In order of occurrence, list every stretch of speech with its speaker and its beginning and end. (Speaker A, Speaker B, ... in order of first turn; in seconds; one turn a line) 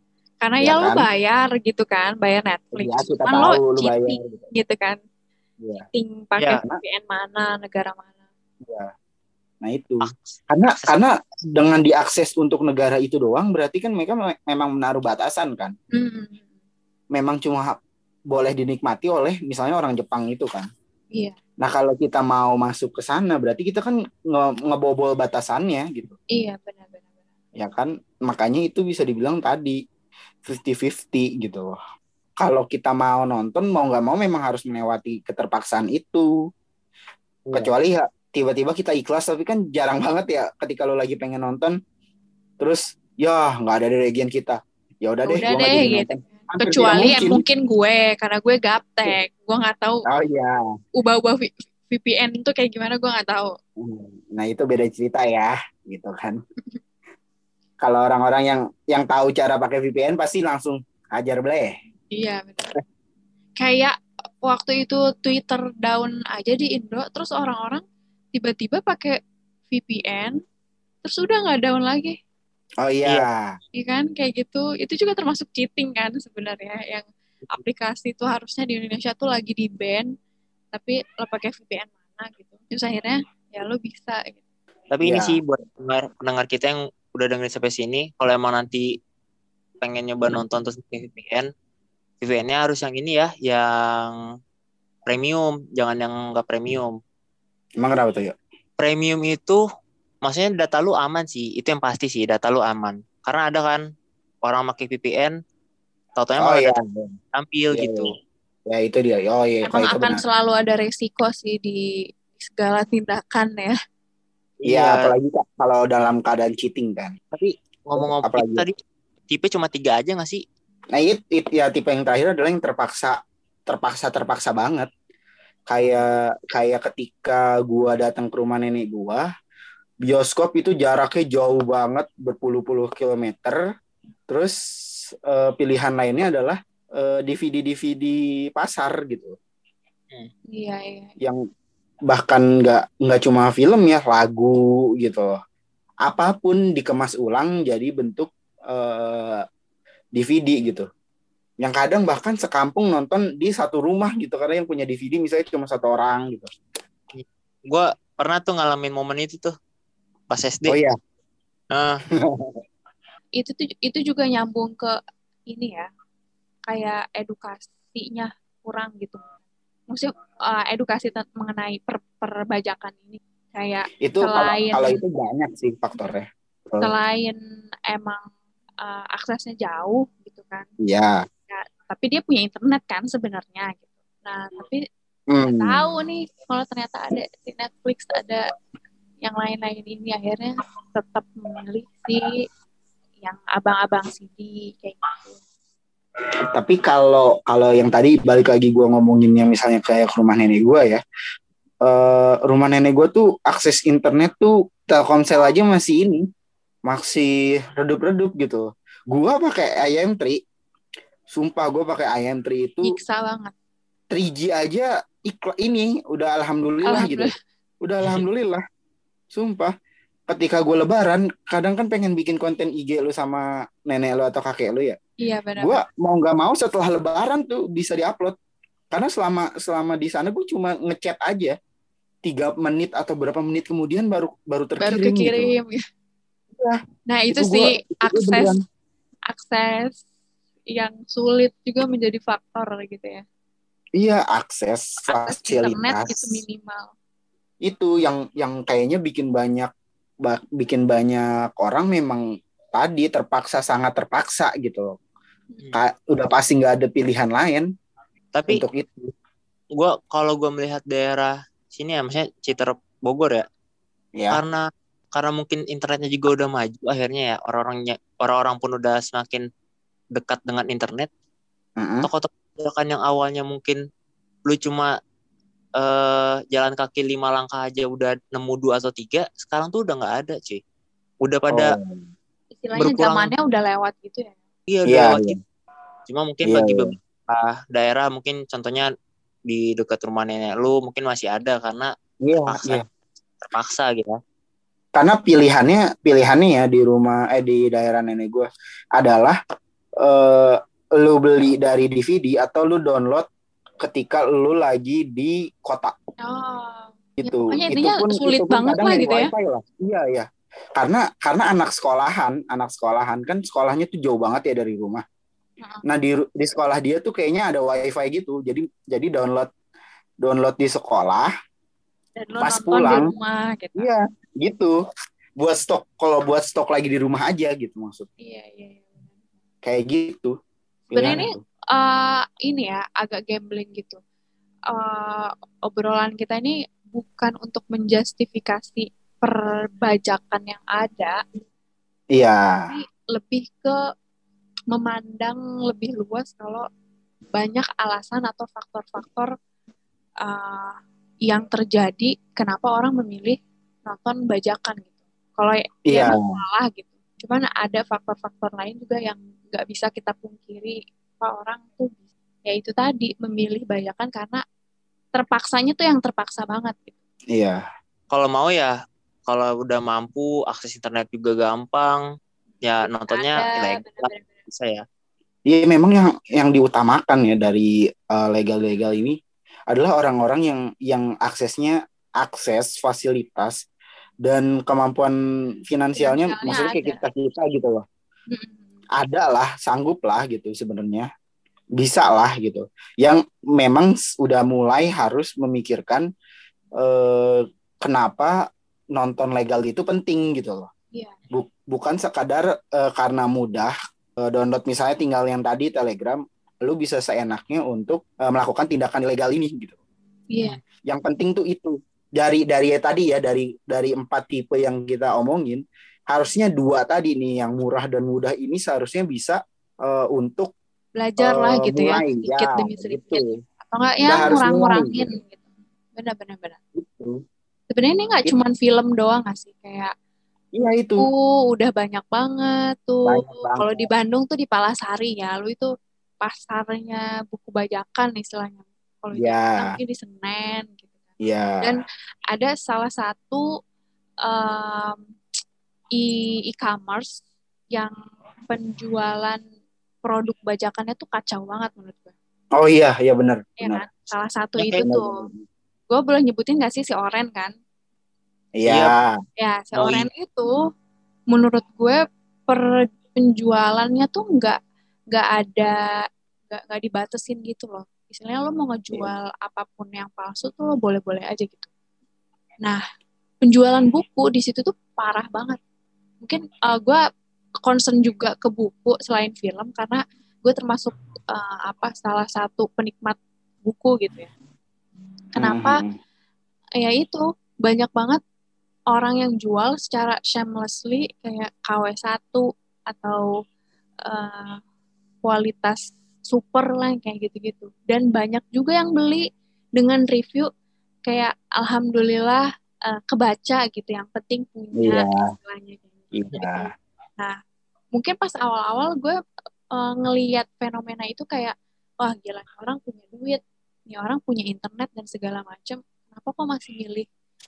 Speaker A: 0.4-5.0
Speaker B: 0.6-1.1
Speaker B: 2.7-4.4
Speaker B: 5.6-5.8
Speaker A: 5.8-8.1
Speaker B: 8.6-8.9
Speaker B: 9.6-15.7
Speaker C: 10.0-11.0
Speaker A: 15.9-16.5
Speaker B: 17.1-17.8
Speaker B: 18.3-20.7
Speaker B: 21.6-26.1
Speaker A: 26.3-27.1
Speaker B: 27.6-29.8
Speaker B: 30.4-31.8
Speaker B: 32.4-36.3
Speaker C: 37.5-37.7
Speaker B: 37.5-41.7
Speaker B: 42.6-47.4
Speaker A: 45.2-50.0
Speaker B: 50.1-50.6
Speaker A: 51.0-53.6
Speaker B: 53.8-56.4
Speaker B: 57.8-61.7
Speaker A: 62.1-62.7
Speaker A: 63.6-69.2
Speaker A: 69.7-70.4
Speaker A: 71.0-72.2
Speaker B: 72.8-73.5
Speaker A: 73.8-80.1
Speaker A: 80.7-84.4
Speaker C: 84.9-88.9
Speaker B: 85.0-85.4
Speaker C: 89.8-91.5
Speaker C: 92.2-94.2
Speaker C: 95.1-96.9
Speaker B: 97.8-98.3
Speaker C: 98.8-99.6
Speaker C: 100.2-103.8
Speaker C: 104.4-105.3
Speaker C: 106.2-106.8
Speaker B: 106.4-107.2
Speaker C: 107.3-108.1
Speaker B: 107.7-108.1
Speaker B: 108.7-110.2
Speaker A: 109.7-113.7
Speaker C: 114.6-115.1
Speaker B: 114.7-117.2
Speaker C: 117.3-118.7
Speaker B: 118.0-118.7
Speaker C: 119.3-120.4
Speaker B: 120.9-124.9
Speaker B: 125.7-129.2
Speaker C: 125.8-126.0
Speaker B: 130.0-133.6
Speaker B: 134.3-134.6
Speaker B: 135.1-139.4
Speaker A: 140.5-141.1
Speaker B: 142.1-145.3
Speaker B: 146.0-149.4
Speaker B: 150.1-150.8
Speaker B: 151.6-156.5
Speaker C: 157.1-159.5
Speaker C: 160.3-160.8
Speaker B: 160.7-160.9
Speaker C: 161.7-162.0
Speaker B: 162.2-162.6
Speaker A: 163.4-164.9
Speaker A: 165.5-165.9
Speaker A: 166.7-169.3
Speaker A: 169.9-175.0
Speaker B: 174.0-176.9
Speaker A: 176.8-178.2
Speaker A: 178.8-180.7
Speaker B: 180.8-181.2
Speaker A: 181.5-184.8
Speaker B: 185.3-185.9
Speaker A: 185.4-188.4
Speaker A: 189.2-192.4
Speaker A: 193.2-195.4
Speaker B: 196.5-201.0
Speaker B: 201.8-206.2
Speaker B: 206.9-210.4
Speaker B: 211.3-213.0
Speaker A: 212.8-213.5
Speaker B: 214.1-217.3
Speaker A: 216.8-217.3
Speaker B: 217.8-218.6
Speaker B: 219.3-219.7
Speaker B: 220.3-224.9
Speaker A: 225.2-225.8
Speaker B: 225.6-228.3
Speaker B: 228.9-231.6
Speaker B: 232.2-235.5
Speaker A: 234.8-235.8
Speaker A: 237.1-238.6
Speaker B: 237.3-238.6
Speaker A: 239.3-240.0
Speaker A: 240.7-243.2
Speaker B: 243.9-246.4
Speaker A: 245.1-246.9
Speaker B: 247.7-249.7
Speaker B: 250.2-252.2
Speaker B: 252.7-254.9
Speaker B: 255.7-257.7
Speaker C: 258.3-258.6
Speaker B: 258.5-259.1
Speaker C: 259.8-263.4
Speaker C: 264.3-264.6
Speaker C: 265.1-269.4
Speaker C: 270.1-271.1
Speaker B: 271.8-272.1
Speaker C: 272.0-273.8
Speaker C: 274.5-274.9
Speaker C: 275.8-280.6
Speaker C: 281.2-281.8
Speaker B: 281.5-282.0
Speaker A: 282.5-284.4
Speaker C: 282.8-283.3
Speaker C: 284.7-285.3
Speaker B: 284.9-285.4
Speaker C: 286.1-288.9
Speaker B: 286.4-286.9
Speaker C: 289.5-291.9
Speaker B: 292.2-292.8
Speaker C: 292.4-292.8
Speaker C: 293.4-294.2
Speaker B: 294.9-299.4
Speaker B: 300.0-303.3
Speaker B: 303.8-305.9
Speaker A: 306.2-309.3
Speaker B: 307.2-315.0
Speaker B: 315.9-319.5
Speaker B: 320.2-321.3
Speaker A: 322.2-323.9
Speaker B: 322.4-323.1
Speaker B: 323.8-324.7
Speaker B: 325.4-328.1
Speaker A: 328.2-329.2
Speaker B: 329.6-330.3
Speaker B: 330.9-331.4
Speaker A: 330.9-334.0
Speaker A: 334.7-341.1
Speaker B: 342.1-342.7
Speaker A: 342.7-343.8
Speaker A: 344.7-346.6
Speaker A: 347.3-349.3
Speaker A: 350.2-350.8
Speaker A: 351.3-364.4
Speaker B: 355.9-356.2
Speaker A: 365.1-366.9
Speaker B: 367.3-367.6
Speaker C: 368.1-368.7
Speaker C: 369.3-372.0
Speaker C: 372.6-374.8
Speaker A: 372.8-374.4
Speaker B: 375.5-379.2
Speaker B: 379.7-383.5
Speaker B: 384.2-385.1
Speaker B: 385.6-387.8
Speaker A: 386.0-387.0
Speaker A: 388.3-388.8
Speaker B: 388.9-391.1
Speaker B: 391.8-396.0
Speaker B: 396.8-398.3
Speaker B: 398.9-400.7
Speaker B: 401.3-409.7
Speaker A: 410.3-410.6
Speaker B: 410.9-420.5
Speaker A: 421.0-425.4
Speaker B: 421.2-423.4
Speaker B: 424.0-425.1
Speaker A: 425.9-426.6
Speaker B: 426.8-427.2
Speaker A: 427.7-429.9
Speaker B: 430.5-431.1
Speaker A: 431.0-435.7
Speaker B: 433.1-433.8
Speaker A: 436.2-441.0
Speaker B: 439.1-439.8
Speaker B: 441.2-441.8
Speaker A: 441.6-443.4
Speaker A: 444.2-445.0
Speaker A: 445.9-447.2
Speaker A: 448.4-449.4
Speaker A: 450.0-452.1
Speaker B: 452.6-453.8
Speaker A: 453.6-455.2
Speaker C: 454.6-454.8
Speaker B: 454.8-455.4
Speaker A: 455.9-457.5
Speaker B: 458.6-459.1
Speaker A: 459.4-460.5
Speaker C: 459.8-460.1
Speaker A: 461.3-464.6
Speaker A: 465.1-465.8
Speaker A: 466.5-471.7
Speaker A: 473.4-475.6
Speaker A: 476.2-477.0
Speaker A: 477.6-484.3
Speaker B: 485.4-486.0
Speaker A: 485.4-485.8
Speaker A: 486.8-488.2
Speaker A: 488.9-493.3
Speaker A: 494.0-494.6
Speaker A: 495.2-499.2
Speaker A: 499.8-500.5
Speaker A: 501.1-507.4
Speaker B: 504.8-505.3
Speaker B: 506.1-506.7
Speaker A: 507.9-509.1
Speaker A: 509.7-517.1